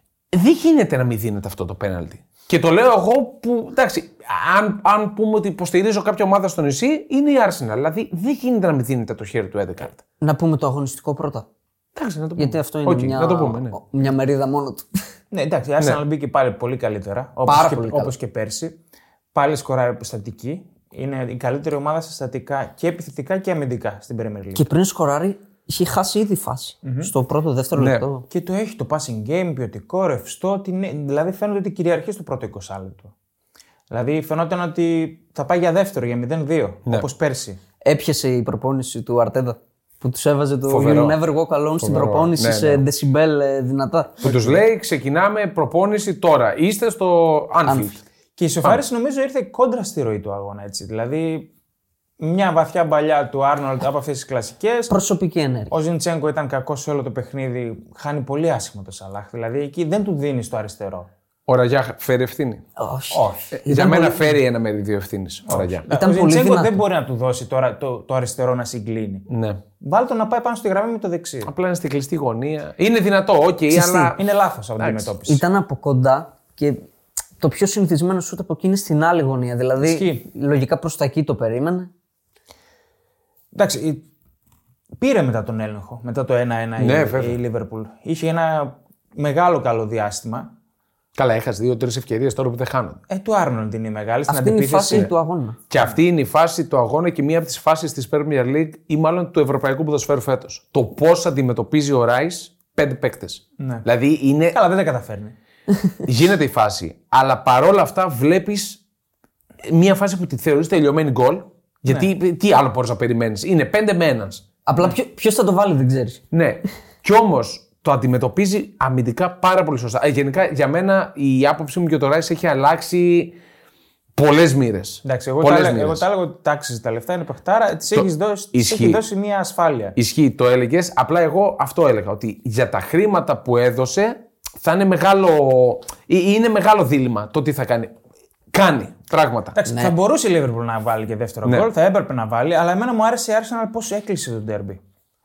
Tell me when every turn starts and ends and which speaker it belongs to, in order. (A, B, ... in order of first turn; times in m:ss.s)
0:00.3-0:10.0 A
0:10.2-0:11.5 B
0:11.9-0:13.8 A
0:12.4-0:15.0 B
0:15.3-0:18.8 C
0:17.5-0:18.1 B
0:19.3-0:24.7 C
0:24.6-0:28.2 B
0:26.8-0:27.1 C
0:27.8-0:28.1 A
0:28.3-0:33.1 C
0:33.9-0:37.6 C
0:37.8-0:44.3 B
0:40.7-0:41.2 A
0:41.8-0:42.8 A
0:44.2-0:48.0 A
0:44.2-0:44.6 C
0:47.7-0:48.0 B
0:48.4-0:51.5 C
0:52.2-0:55.0 C
0:54.9-0:55.7 B
0:55.7-1:01.1 C
1:01.5-1:02.6 A
1:02.8-1:04.2 B
1:03.1-1:03.6 C
1:03.7-1:05.8 A
1:05.5-1:09.3 C
1:05.9-1:06.8 B
1:09.3-1:09.6 A
1:09.8-1:11.5 C
1:11.4-1:14.2 A
1:13.7-1:14.2 B
1:14.2-1:15.4 C
1:14.8-1:15.1 A
1:15.3-1:16.9 B
1:17.4-1:21.9 B
1:19.8-1:20.2 C
1:23.5-1:24.1 C
1:25.0-1:30.5 C
1:26.8-1:27.4 A
1:31.1-1:33.0 A
1:33.1-1:35.1 C
1:34.3-1:35.6 B
1:35.7-1:44.6 A
1:43.6-1:43.9 C
1:44.5-1:45.4 C
1:46.0-1:48.8 A
1:49.6-1:54.4 A
1:54.7-1:56.2 B
1:56.3-2:03.4 A
2:04.1-2:06.0 A
2:05.0-2:10.0 C
2:07.9-2:09.0 A
2:10.0-2:17.9 A
2:18.5-2:19.6 A
2:19.6-2:24.8 C
2:19.7-2:19.9 B